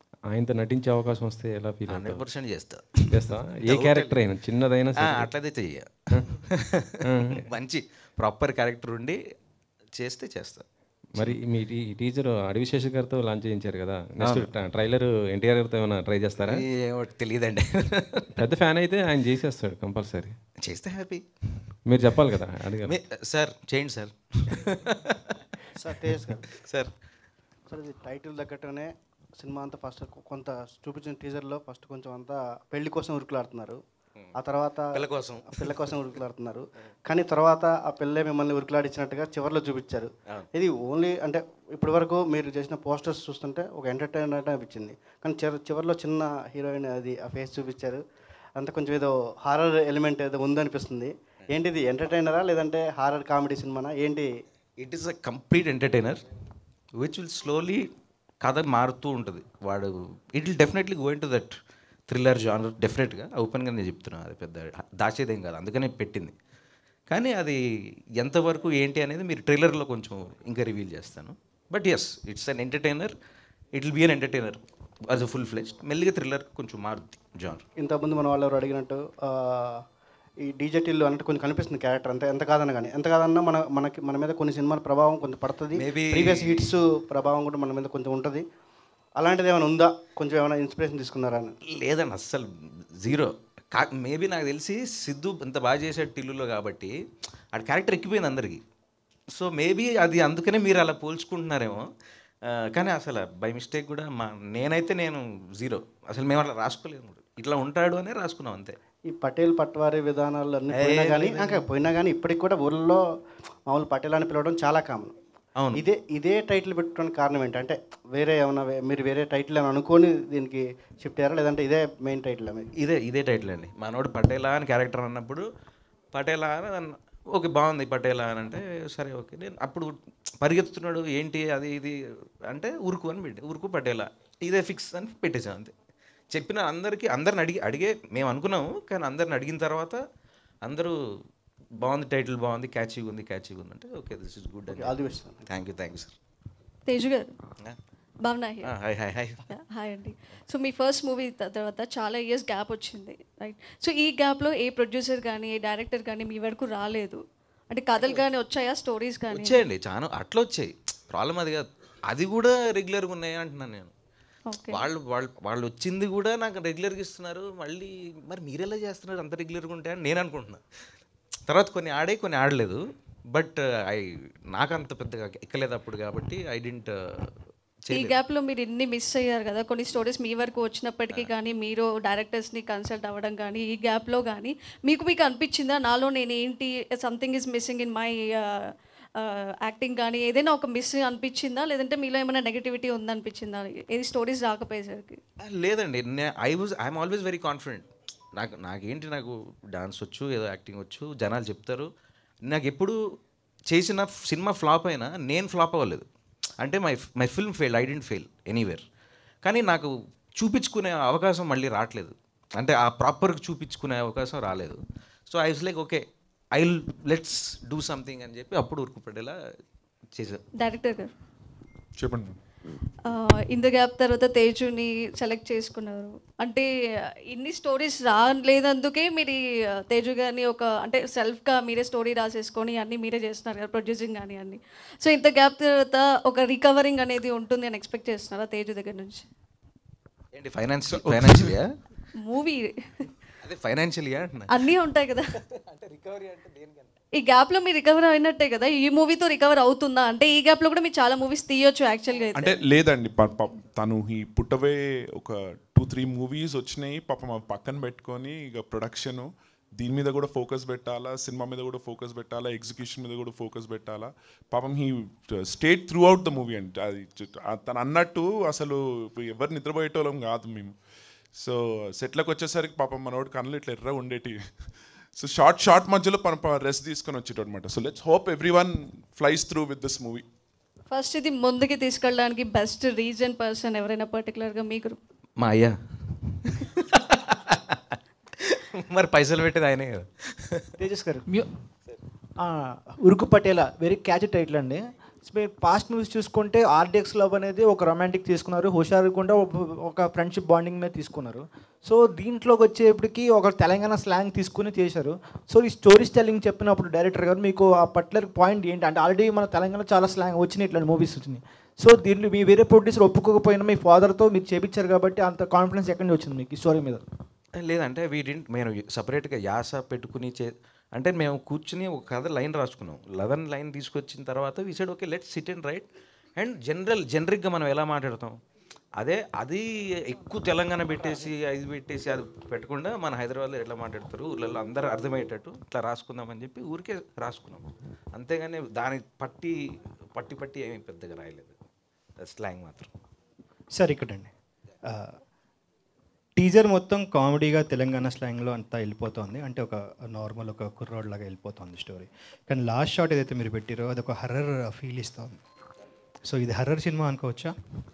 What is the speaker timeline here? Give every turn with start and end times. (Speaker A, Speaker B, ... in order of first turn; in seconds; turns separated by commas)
Speaker A: 0.3-2.2, Speaker B: 1.9-4.2, Speaker A: 3.1-5.3, Speaker B: 4.9-9.2, Speaker A: 7.0-7.4, Speaker B: 10.0-10.6, Speaker A: 11.1-16.6, Speaker B: 14.2-14.5, Speaker B: 16.4-18.3, Speaker A: 18.4-20.4, Speaker B: 20.6-21.2, Speaker A: 21.9-22.9, Speaker B: 22.8-25.3, Speaker C: 25.8-26.4, Speaker B: 26.5-26.9, Speaker C: 27.7-33.8, Speaker C: 34.4-48.0, Speaker B: 34.9-35.7, Speaker C: 48.6-54.3, Speaker B: 54.8-56.2, Speaker B: 57.0-57.9, Speaker B: 58.4-61.5, Speaker B: 62.1-66.3, Speaker B: 67.1-67.6, Speaker B: 68.2-73.1, Speaker B: 73.7-77.6, Speaker C: 77.8-79.8, Speaker C: 80.5-88.4, Speaker B: 85.7-86.7, Speaker C: 89.2-91.5, Speaker B: 91.7-96.9, Speaker B: 97.5-98.6, Speaker B: 99.3-101.8, Speaker B: 102.5-108.8, Speaker C: 109.1-113.0, Speaker B: 110.7-111.7, Speaker C: 113.7-115.1, Speaker B: 115.6-115.8, Speaker C: 115.7-122.7, Speaker B: 122.8-125.4, Speaker B: 126.1-131.9, Speaker B: 132.5-135.7, Speaker B: 136.3-140.0, Speaker B: 140.7-141.0, Speaker B: 141.8-146.1, Speaker C: 144.7-145.4, Speaker D: 146.9-147.3, Speaker D: 148.2-148.7, Speaker B: 148.6-149.4, Speaker D: 149.5-159.6, Speaker B: 158.0-158.3, Speaker B: 159.3-163.9, Speaker D: 164.5-164.8, Speaker B: 164.7-170.6, Speaker B: 171.5-172.8, Speaker B: 173.3-177.3, Speaker B: 177.8-178.2, Speaker D: 177.9-195.2, Speaker B: 195.4-201.9, Speaker B: 202.4-203.0, Speaker B: 203.7-206.1, Speaker B: 206.6-208.8, Speaker B: 209.4-214.8, Speaker B: 215.3-216.0, Speaker B: 216.5-219.3, Speaker B: 220.2-220.4, Speaker D: 220.6-221.1, Speaker E: 222.0-222.3, Speaker D: 223.1-226.7, Speaker D: 227.3-239.2, Speaker B: 240.3-241.7, Speaker E: 240.9-241.6, Speaker D: 242.2-243.1, Speaker B: 243.4-244.7, Speaker D: 244.5-245.3, Speaker B: 245.7-246.9, Speaker D: 247.1-252.6, Speaker E: 252.3-270.7, Speaker E: 271.3-274.4, Speaker E: 275.1-280.2, Speaker D: 280.9-285.0, Speaker B: 285.4-285.8, Speaker B: 286.3-290.7, Speaker F: 290.9-291.2, Speaker G: 290.9-291.2, Speaker G: 293.1-317.0, Speaker B: 317.6-325.8, Speaker B: 326.4-328.4, Speaker B: 329.0-339.6, Speaker B: 340.1-341.5, Speaker B: 342.2-342.9, Speaker F: 343.8-344.3, Speaker F: 344.9-345.1, Speaker F: 346.4-355.4, Speaker F: 356.2-357.5